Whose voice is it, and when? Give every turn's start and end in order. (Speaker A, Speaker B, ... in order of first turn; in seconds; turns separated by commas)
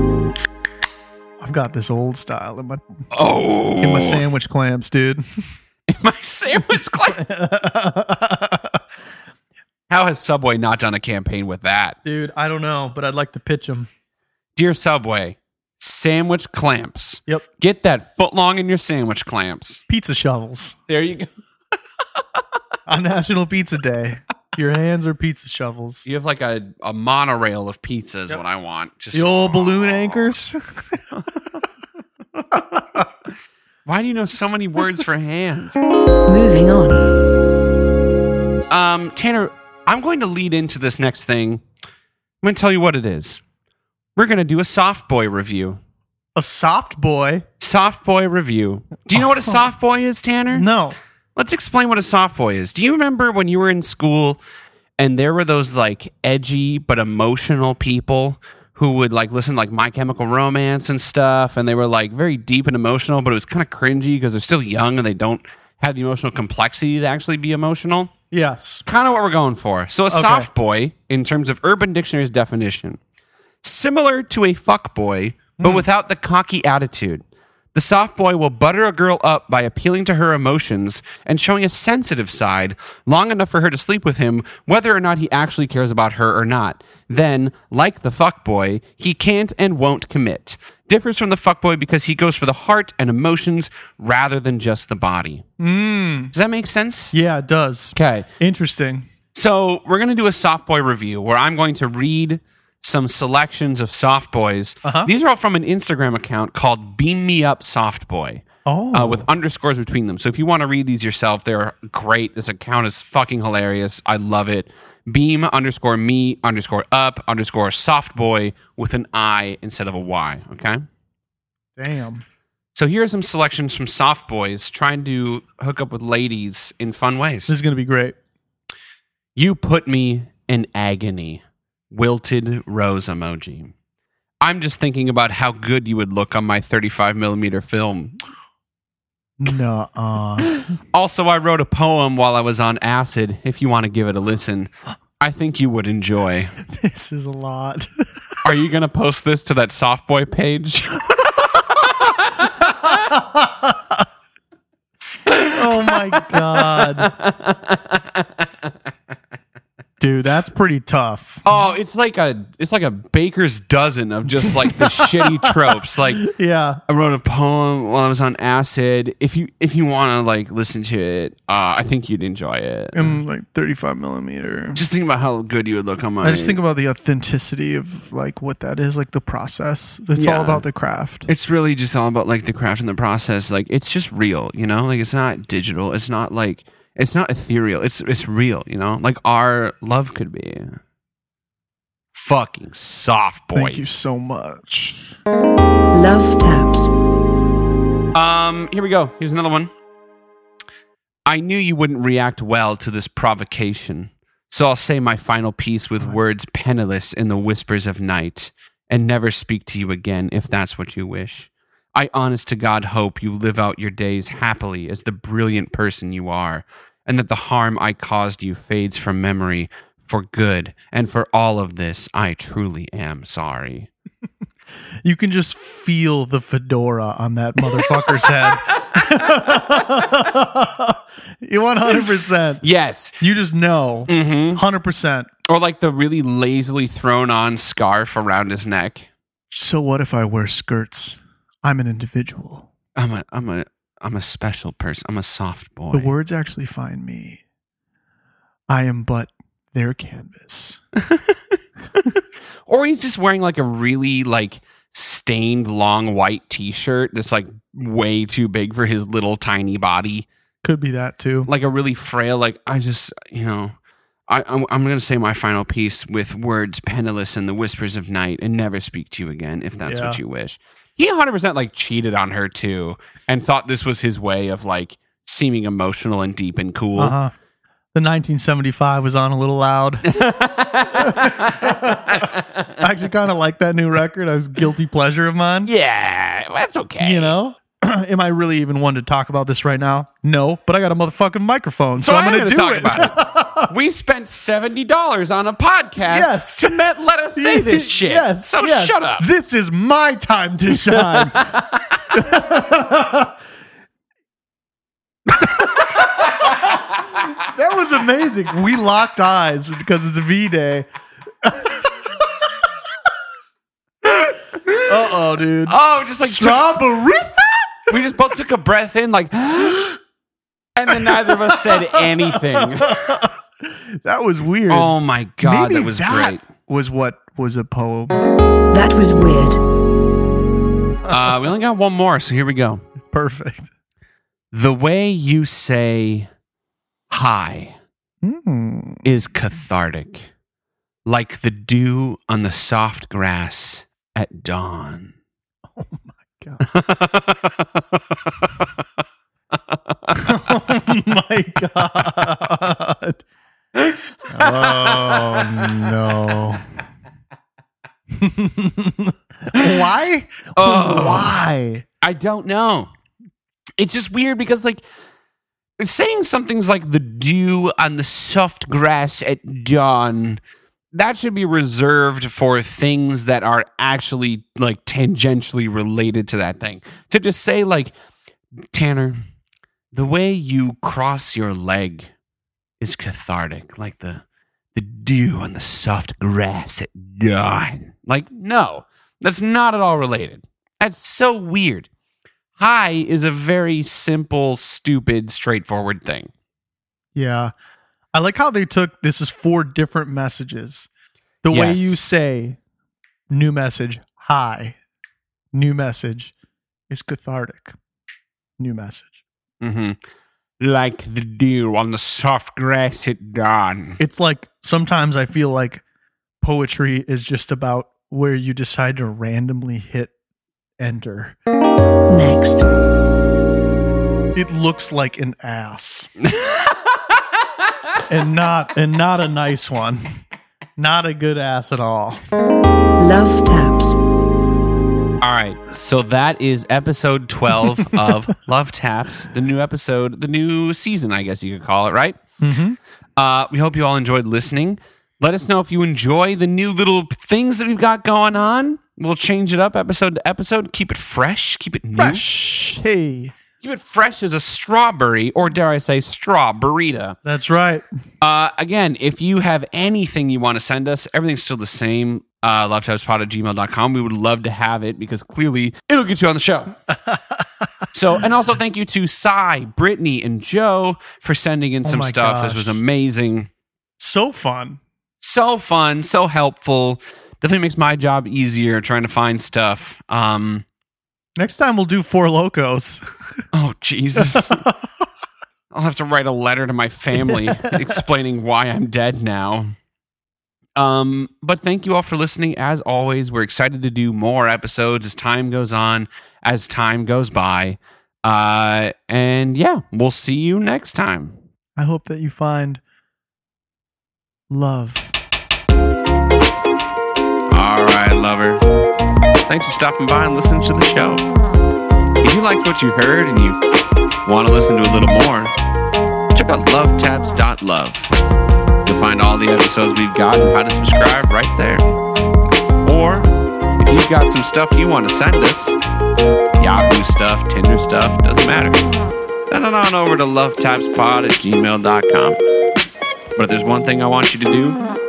Speaker A: 1.4-2.8, Speaker B: 3.1-4.2, Speaker A: 3.8-5.2, Speaker B: 5.9-7.2, Speaker A: 6.6-8.8, Speaker B: 9.9-12.0, Speaker A: 12.1-13.9, Speaker B: 14.6-19.8, Speaker A: 19.9-20.8, Speaker B: 20.9-21.3, Speaker A: 22.9-26.1, Speaker B: 26.1-30.4, Speaker A: 29.1-31.0, Speaker A: 32.5-33.0, Speaker B: 33.9-35.8, Speaker C: 36.3-37.1, Speaker B: 38.7-41.6, Speaker B: 42.4-43.4, Speaker B: 44.2-45.8, Speaker A: 46.4-47.5, Speaker B: 47.6-50.7, Speaker A: 49.2-49.6, Speaker A: 50.5-51.0, Speaker B: 51.4-54.4, Speaker B: 55.0-68.1, Speaker A: 68.3-68.8, Speaker B: 68.9-73.0, Speaker A: 70.1-70.5, Speaker B: 73.6-95.5, Speaker A: 75.6-75.9, Speaker A: 95.6-96.3, Speaker B: 96.3-97.1, Speaker A: 97.1-99.0, Speaker B: 98.0-98.3, Speaker B: 99.3-120.8, Speaker A: 104.8-105.1, Speaker A: 108.7-109.3, Speaker A: 121.8-122.2, Speaker B: 122.8-127.5, Speaker A: 127.5-128.2, Speaker B: 129.4-133.7, Speaker B: 134.4-138.2, Speaker A: 139.4-140.5, Speaker B: 140.6-146.6, Speaker A: 146.7-148.2, Speaker B: 148.4-153.0, Speaker A: 152.6-154.0, Speaker B: 155.3-158.7, Speaker A: 155.5-157.1, Speaker A: 160.0-161.5, Speaker B: 161.4-166.3, Speaker A: 164.4-166.8, Speaker B: 166.9-173.2, Speaker A: 172.9-174.8, Speaker B: 174.8-176.6, Speaker A: 176.2-181.3, Speaker B: 180.2-180.7, Speaker B: 181.3-190.8, Speaker B: 192.1-193.9, Speaker A: 193.6-195.2, Speaker C: 195.9-196.9, Speaker B: 198.1-199.7, Speaker B: 201.3-223.9, Speaker A: 225.0-232.6, Speaker B: 227.8-229.7, Speaker B: 232.6-233.2, Speaker A: 233.2-235.3, Speaker B: 234.1-234.6, Speaker B: 235.5-239.1, Speaker A: 239.5-242.7, Speaker B: 243.0-246.1, Speaker A: 245.9-247.4, Speaker A: 248.7-250.8, Speaker B: 251.0-260.3, Speaker A: 260.6-261.5, Speaker B: 261.5-263.8, Speaker B: 264.3-277.1, Speaker A: 269.9-270.2, Speaker A: 277.0-277.3, Speaker A: 277.9-280.1, Speaker B: 280.1-282.8, Speaker A: 280.9-285.7, Speaker B: 285.7-287.4, Speaker A: 287.0-293.7, Speaker B: 292.0-299.2, Speaker A: 296.1-296.8, Speaker A: 297.4-301.6, Speaker B: 300.9-302.0, Speaker A: 302.1-303.4, Speaker A: 305.4-310.9, Speaker A: 311.4-312.2, Speaker B: 314.1-314.9, Speaker A: 314.9-317.7, Speaker B: 315.6-316.8, Speaker B: 317.9-320.0, Speaker B: 320.8-323.3, Speaker A: 320.9-324.9, Speaker B: 324.7-326.4, Speaker A: 325.4-328.2, Speaker C: 328.7-329.6, Speaker B: 331.1-332.8, Speaker A: 331.1-331.3, Speaker A: 333.1-333.7, Speaker B: 334.5-336.3, Speaker B: 337.1-337.8, Speaker A: 338.2-339.1, Speaker B: 339.1-340.3, Speaker B: 341.1-345.1, Speaker A: 345.8-346.6, Speaker B: 346.6-348.8, Speaker B: 349.7-350.4, Speaker A: 350.2-353.2, Speaker B: 353.8-355.9, Speaker A: 354.3-356.6, Speaker A: 358.1-361.9, Speaker B: 360.6-361.4, Speaker B: 362.0-362.9, Speaker B: 363.8-364.8, Speaker B: 365.8-370.4, Speaker B: 370.9-377.9, Speaker B: 378.7-379.2, Speaker B: 379.9-382.1, Speaker B: 382.8-384.2, Speaker B: 384.8-391.9, Speaker B: 392.6-396.3, Speaker A: 397.1-397.5, Speaker A: 398.1-400.9, Speaker A: 401.4-402.6, Speaker B: 401.5-402.0, Speaker A: 403.3-404.8, Speaker A: 405.5-406.3, Speaker A: 406.9-407.8, Speaker A: 408.6-409.2, Speaker B: 409.6-410.0, Speaker B: 410.6-414.0, Speaker A: 414.0-415.8, Speaker A: 416.4-420.1, Speaker A: 420.8-421.4, Speaker C: 422.1-422.7, Speaker A: 424.4-426.1, Speaker B: 426.2-427.7, Speaker A: 428.1-430.0, Speaker A: 430.8-432.2, Speaker C: 433.0-434.0, Speaker B: 435.2-442.2, Speaker A: 442.4-442.8, Speaker B: 443.2-452.2, Speaker A: 452.0-453.3, Speaker B: 453.6-457.2, Speaker A: 457.2-457.9, Speaker B: 458.2-466.8, Speaker A: 467.1-467.7, Speaker B: 467.9-473.5, Speaker A: 471.9-472.8, Speaker A: 474.0-474.8, Speaker B: 475.2-480.7, Speaker A: 481.4-483.0, Speaker B: 483.5-484.6, Speaker A: 484.2-484.8, Speaker B: 485.7-489.7, Speaker A: 487.3-487.8, Speaker B: 490.8-501.4, Speaker A: 501.8-502.8, Speaker A: 504.5-505.1, Speaker B: 507.5-508.6, Speaker B: 509.5-511.2, Speaker B: 512.2-513.6, Speaker B: 514.2-515.5, Speaker B: 516.3-518.1, Speaker B: 518.9-521.8, Speaker B: 522.8-525.8, Speaker B: 526.6-528.8, Speaker B: 529.5-532.4, Speaker B: 533.4-534.8